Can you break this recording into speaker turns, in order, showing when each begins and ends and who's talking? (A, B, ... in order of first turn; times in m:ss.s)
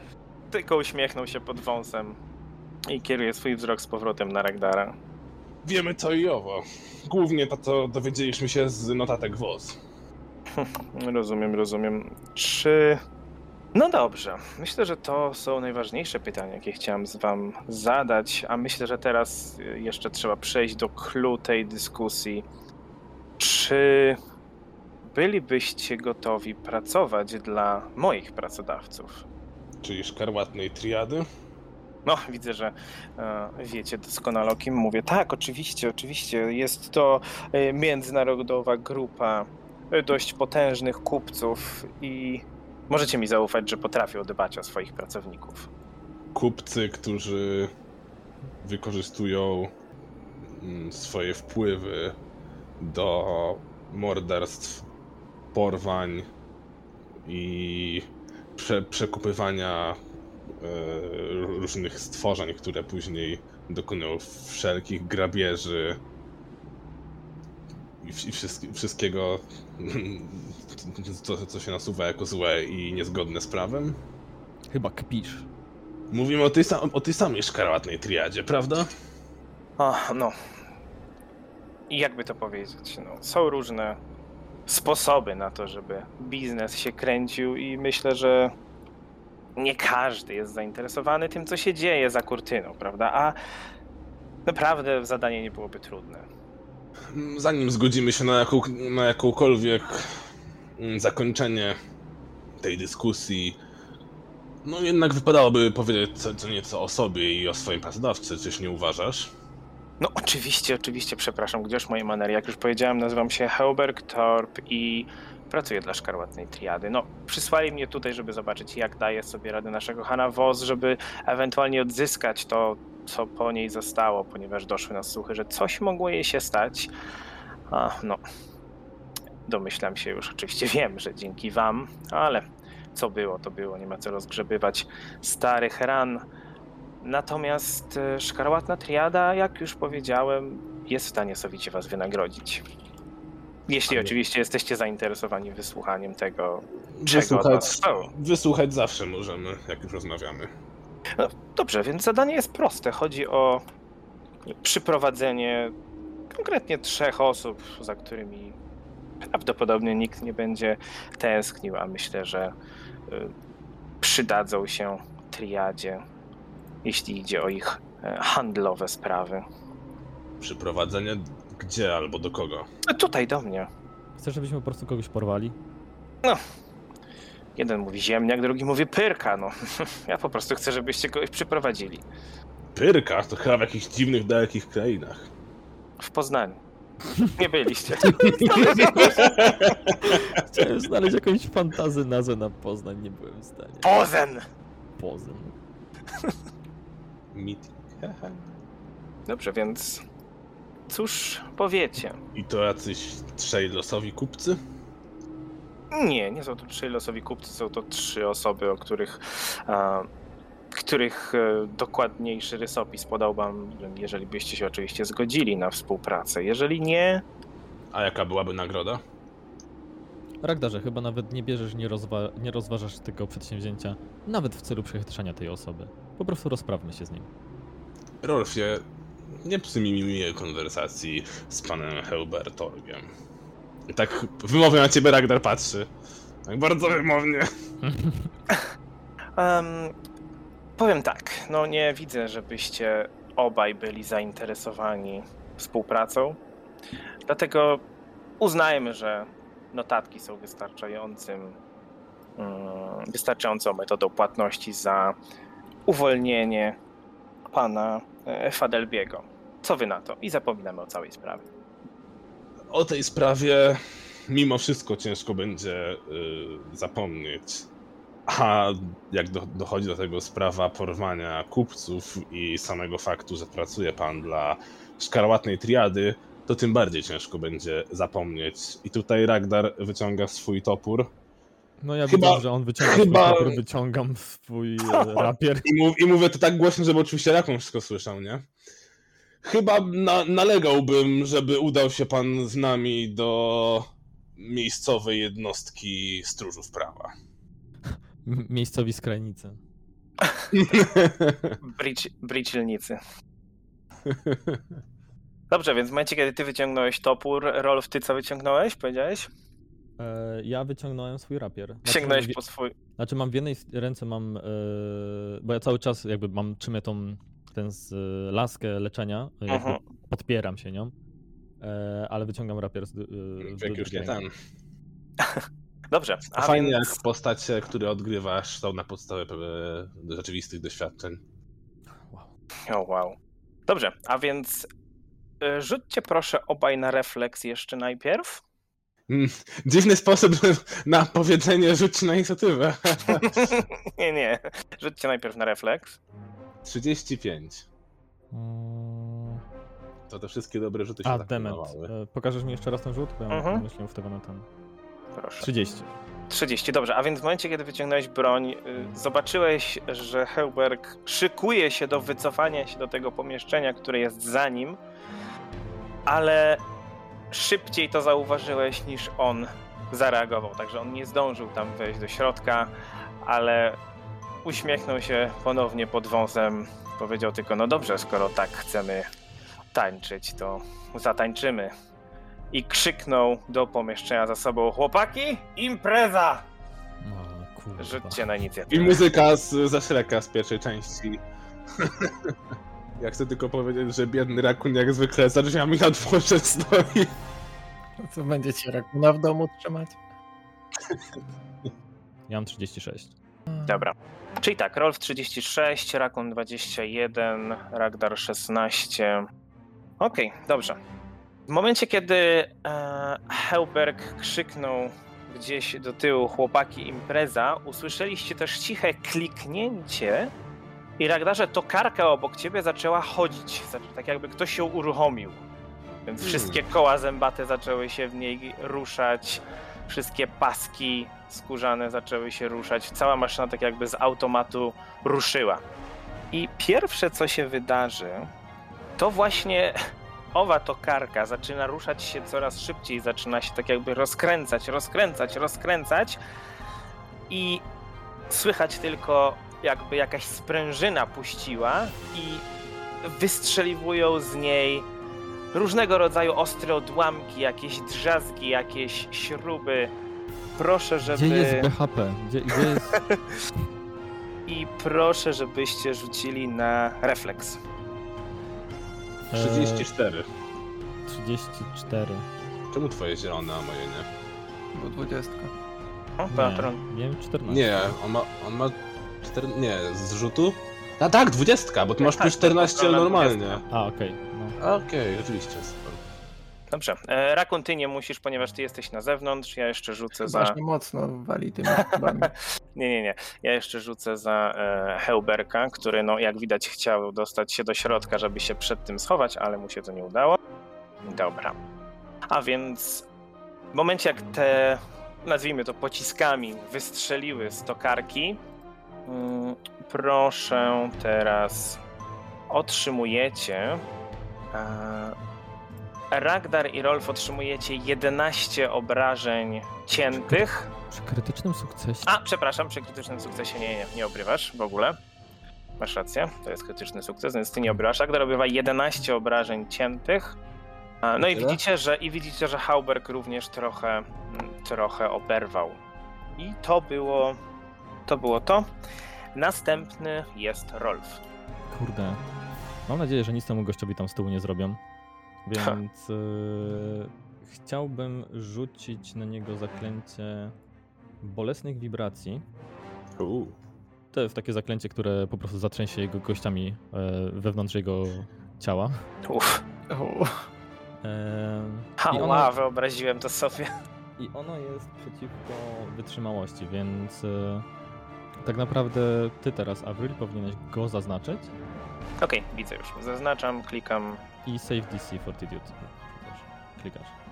0:00.5-0:02.2 A
0:02.9-0:04.9 A
0:05.6-0:09.8 B
0:10.5-0:13.0 A
0:13.7-0:22.4 A
0:23.4-0:24.2 A
0:25.1-0:29.2 A
0:29.8-0:31.3 B
0:32.1-0:45.7 A
0:46.3-0:47.7 B
0:48.6-0:49.7 B
0:50.5-0:52.2 B
0:52.8-0:54.8 B
0:55.5-0:56.2 B
0:57.2-1:00.0 B
1:00.6-1:06.0 B
1:08.0-1:14.0 B
1:14.7-1:15.5 C
1:16.1-1:18.9 B
1:19.8-1:20.4 A
1:21.9-1:24.0 A
1:24.7-1:28.5 A
1:29.6-1:33.4 A
1:34.4-1:36.2 A
1:37.1-1:40.1 B
1:40.8-1:41.7 B
1:42.6-1:43.6 B
1:44.6-1:49.3 B
1:50.0-2:06.9 A
2:07.7-2:08.2 A
2:09.5-2:16.2 A
2:17.0-2:22.6 A
2:23.7-2:28.1 A
2:23.9-2:24.1 B
2:26.9-2:30.5 B
2:31.2-2:33.6 A
2:34.5-2:35.7 A
2:36.3-2:38.6 A
2:39.3-2:42.5 A
2:44.0-2:46.0 A
2:46.8-2:49.4 A
2:50.4-2:52.7 B
2:52.9-2:53.7 A
2:54.2-2:55.6 C
2:57.6-3:02.0 A
3:02.7-3:05.3 B
3:06.0-3:06.6 A
3:07.4-3:09.5 A
3:08.3-3:10.1 B
3:10.1-3:13.9 C
3:13.8-3:14.4 A
3:15.0-3:15.6 C
3:17.3-3:18.5 B
3:19.3-3:20.0 A
3:20.9-3:22.2 A
3:22.4-3:24.6 B
3:25.9-3:30.1 A
3:30.7-3:37.2 A
3:37.9-3:39.0 B
3:40.4-3:47.3 C
3:48.2-3:48.8 B
3:49.4-3:53.1 B
3:53.9-3:55.9 B
3:56.4-3:57.5 B
3:57.8-3:58.3 C
3:59.4-3:59.9 A
4:00.8-4:06.4 A
4:07.3-4:07.8 A
4:08.4-4:11.6 A
4:12.4-4:15.2 A
4:15.9-4:16.8 A
4:17.5-4:21.4 A
4:22.7-4:27.7 B
4:28.3-4:41.1 B
4:41.8-4:45.7 C
4:42.1-4:43.6 B
4:44.9-4:45.3 A
4:45.6-4:48.5 B
4:49.4-4:57.1 B
4:57.9-4:59.6 C
5:00.2-5:00.7 A
5:00.5-5:01.6 B
5:01.6-5:03.0 A
5:04.1-5:04.6 B
5:05.5-5:09.3 A
5:10.0-5:12.4 C
5:11.8-5:12.7 A
5:13.0-5:20.9 C
5:19.5-5:19.8 A
5:21.6-5:24.2 C
5:23.4-5:24.3 B
5:25.2-5:27.0 A
5:26.4-5:31.2 B
5:32.0-5:32.3 C
5:32.7-5:33.2 A
5:33.7-5:34.7 A
5:35.4-5:38.4 A
5:39.1-5:43.6 B
5:43.1-5:46.0 A
5:46.6-5:47.6 B
5:48.3-5:49.4 C
5:50.1-5:51.9 B
5:51.0-5:54.5 C
5:53.3-5:53.6 A
5:55.1-5:55.5 A
5:55.4-5:55.9 C
5:56.3-6:04.8 A
6:06.1-6:06.6 A
6:07.3-6:12.7 A
6:13.2-6:13.8 A
6:14.4-6:19.1 A
6:19.7-6:21.7 A
6:22.5-6:26.4 A
6:27.0-6:28.2 C
6:27.8-6:29.0 A
6:28.7-6:31.2 B
6:31.8-6:32.3 B
6:33.0-6:37.1 B
6:38.0-6:40.0 D
6:42.3-6:43.1 C
6:43.5-6:43.9 D
6:43.6-6:49.2 A
6:50.0-6:50.8 A
6:51.5-7:00.3 A
7:01.0-7:05.4 A
7:06.1-7:15.6 A
7:06.2-7:06.6 B
7:16.3-7:18.3 A
7:19.0-7:19.8 A
7:20.3-7:26.2 A
7:27.3-7:27.6 A
7:28.3-7:32.4 A
7:33.0-7:34.9 A
7:35.5-7:39.9 A
7:40.6-7:41.7 A
7:41.0-7:43.0 C
7:44.5-7:47.6 A
7:49.3-7:49.9 C
7:49.3-7:50.3 B
7:51.1-7:52.3 C
7:52.7-7:54.1 B
7:54.7-7:55.5 D
7:56.2-7:56.8 A
7:56.3-7:58.0 C
7:57.5-8:03.6 B
8:02.0-8:03.6 A
8:03.7-8:04.6 C
8:04.6-8:06.0 B
8:06.7-8:10.6 A
8:10.2-8:12.3 D
8:11.7-8:20.4 A
8:21.1-8:21.6 A
8:22.3-8:23.0 A
8:23.7-8:28.4 A
8:29.1-8:31.8 A
8:32.5-8:33.8 A
8:34.5-8:35.1 A
8:36.1-8:40.7 A
8:40.2-8:42.1 C
8:42.1-8:44.9 A
8:45.8-8:50.4 A
8:51.0-8:55.8 A
8:51.2-8:51.6 B
8:56.4-8:57.4 A
8:58.1-8:58.6 A
8:59.4-9:01.2 A
9:01.7-9:02.2 C
9:02.9-9:04.8 C
9:05.4-9:10.5 C
9:11.2-9:12.4 C
9:13.2-9:13.6 B
9:14.1-9:19.1 C
9:19.3-9:19.6 A
9:19.9-9:20.3 D
9:21.0-9:22.5 C
9:22.0-9:23.7 A
9:24.2-9:27.6 C
9:28.4-9:31.5 C
9:32.2-9:34.2 A
9:34.4-9:37.1 C